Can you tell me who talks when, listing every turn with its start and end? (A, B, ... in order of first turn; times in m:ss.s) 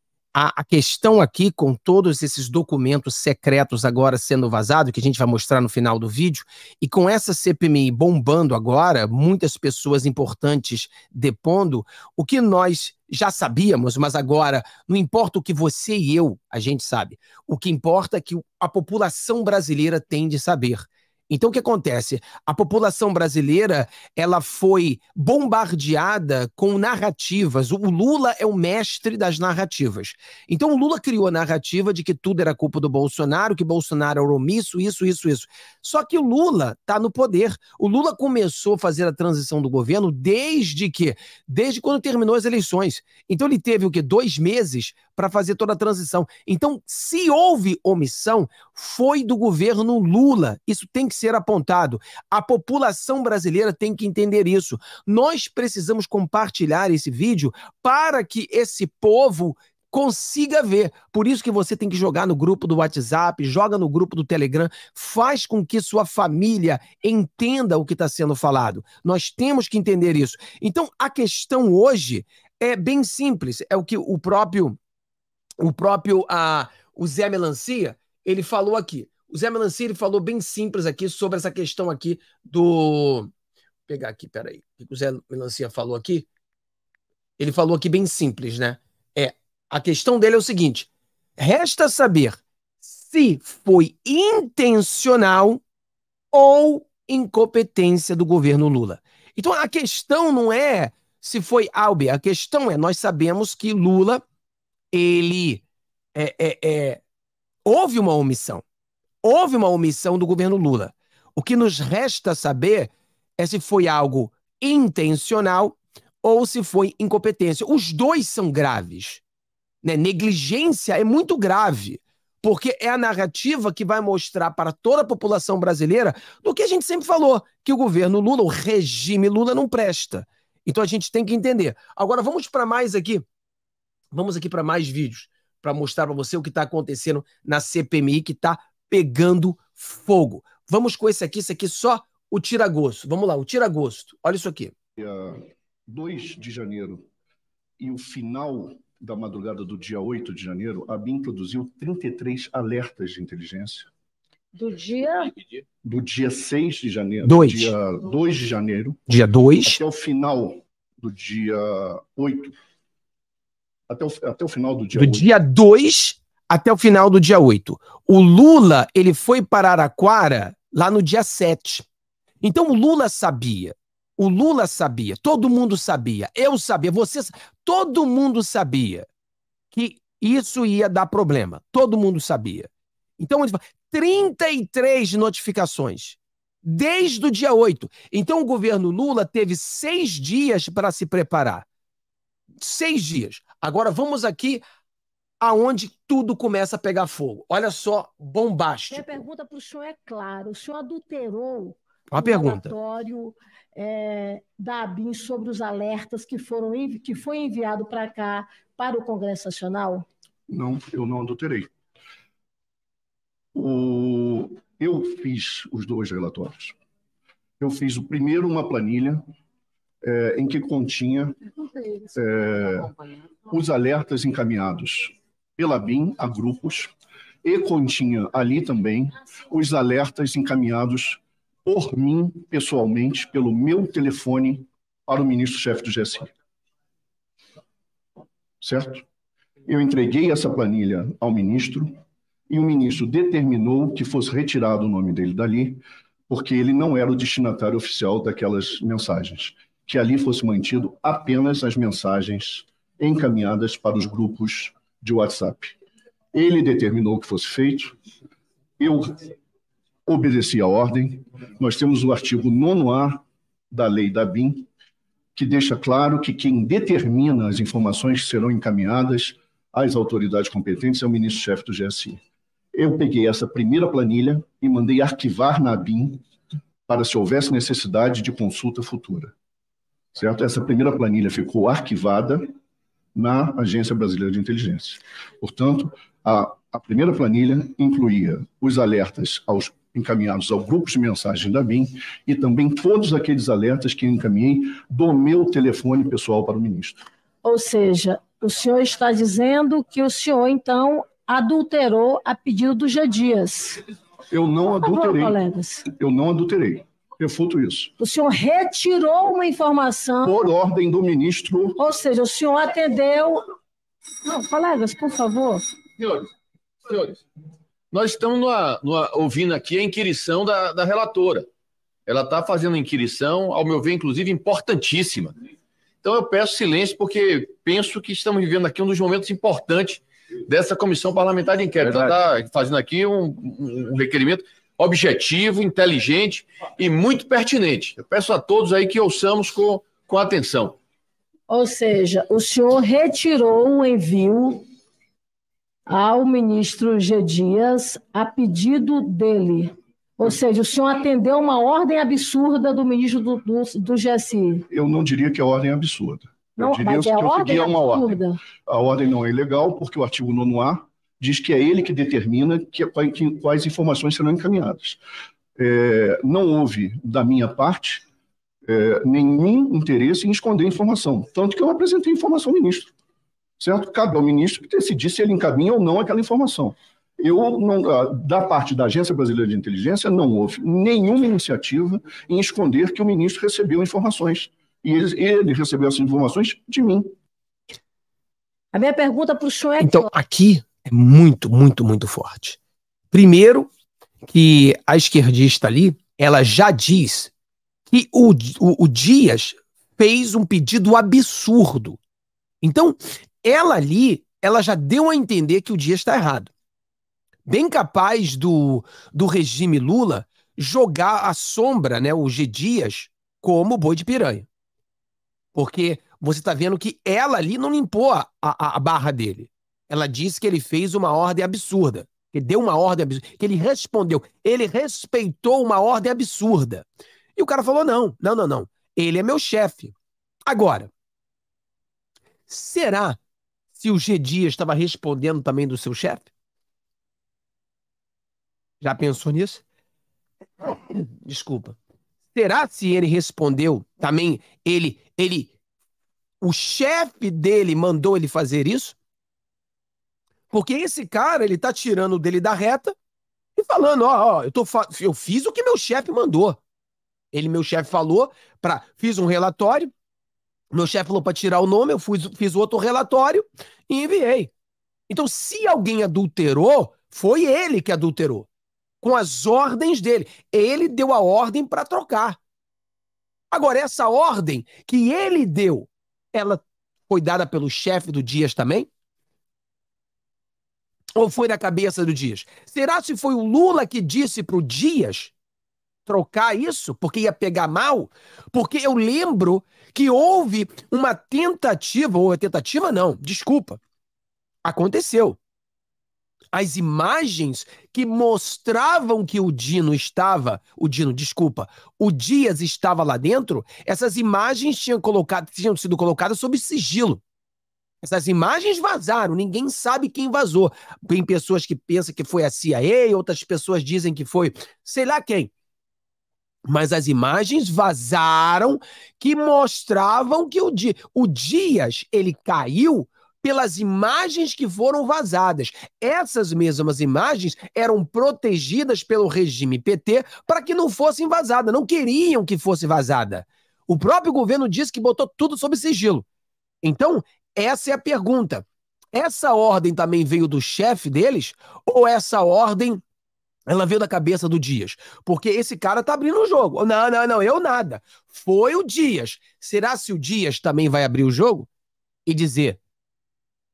0:00.3-1:14.8 A
1:15.6-1:23.3 A
1:23.9-1:26.3 A
1:27.4-1:35.6 A
1:36.3-1:44.2 A
1:44.9-1:45.6 A
1:46.1-1:47.0 A
1:47.6-1:48.6 A
1:49.2-1:59.2 A
1:59.8-2:13.2 A
2:14.1-2:24.7 A
2:25.0-2:27.0 B
2:27.8-2:33.9 B
2:34.5-2:35.6 C
2:35.8-2:39.0 B
2:37.2-2:37.7 A
2:39.1-2:39.8 A
2:39.6-2:42.5 B
2:43.9-2:45.3 B
2:44.9-2:51.9 A
2:52.4-2:59.0 A
2:59.7-3:11.6 A
3:12.6-3:14.6 A
3:15.4-3:19.2 A
3:18.9-3:30.0 C
3:22.1-3:22.7 A
3:30.5-3:31.7 B
3:33.5-3:36.8 B
3:37.6-3:39.2 B
3:40.0-3:41.4 B
3:42.0-3:43.0 B
3:43.5-3:46.9 B
3:47.4-3:56.3 B
3:58.6-3:59.0 B
3:59.6-4:02.0 B
4:02.5-4:15.8 B
4:16.3-4:17.9 B
4:18.8-4:19.3 B
4:20.0-4:24.7 B
4:25.3-4:32.2 B
4:32.7-4:36.2 B
4:36.9-4:39.3 B
4:40.1-4:42.5 B
4:43.1-4:57.0 B
4:57.4-5:03.8 C
5:04.3-5:07.9 B
5:04.8-5:05.9 C
5:08.0-5:10.4 C
5:10.2-5:11.8 B
5:11.8-5:13.4 C
5:14.2-5:15.6 C
5:16.0-5:16.3 D
5:16.8-5:17.2 D
5:17.9-5:21.4 D
5:22.1-5:25.3 D
5:26.0-5:40.8 D
5:41.5-5:44.6 C
5:45.9-5:54.6 C
5:54.7-6:05.0 B
5:56.6-5:58.4 C
6:05.6-6:08.0 B
6:08.6-6:12.9 B
6:13.6-6:27.1 B
6:28.7-6:30.1 C
6:29.8-6:32.6 A
6:33.1-6:33.7 A
6:34.3-6:37.3 A
6:37.9-6:42.0 A
6:42.6-6:46.5 A
6:47.5-6:54.4 A
6:55.5-7:09.9 A
7:10.5-7:10.9 A
7:12.5-7:13.2 A
7:13.7-7:16.3 A
7:18.8-7:19.6 A
7:20.6-7:21.8 A
7:22.3-7:25.5 A
7:26.4-7:29.0 A
7:30.5-7:32.9 A
7:33.6-7:36.6 A
7:37.3-7:39.9 A
7:40.7-7:44.5 A
7:45.1-7:48.5 A
7:49.0-7:52.4 A
7:53.5-7:58.9 A
8:01.2-8:05.3 A
8:06.0-8:13.8 A
8:14.6-8:15.4 A
8:16.5-8:27.2 A
8:28.0-8:35.5 A
8:36.6-8:56.2 A
8:56.8-9:03.0 A
9:03.7-9:11.7 A
9:12.2-9:12.8 A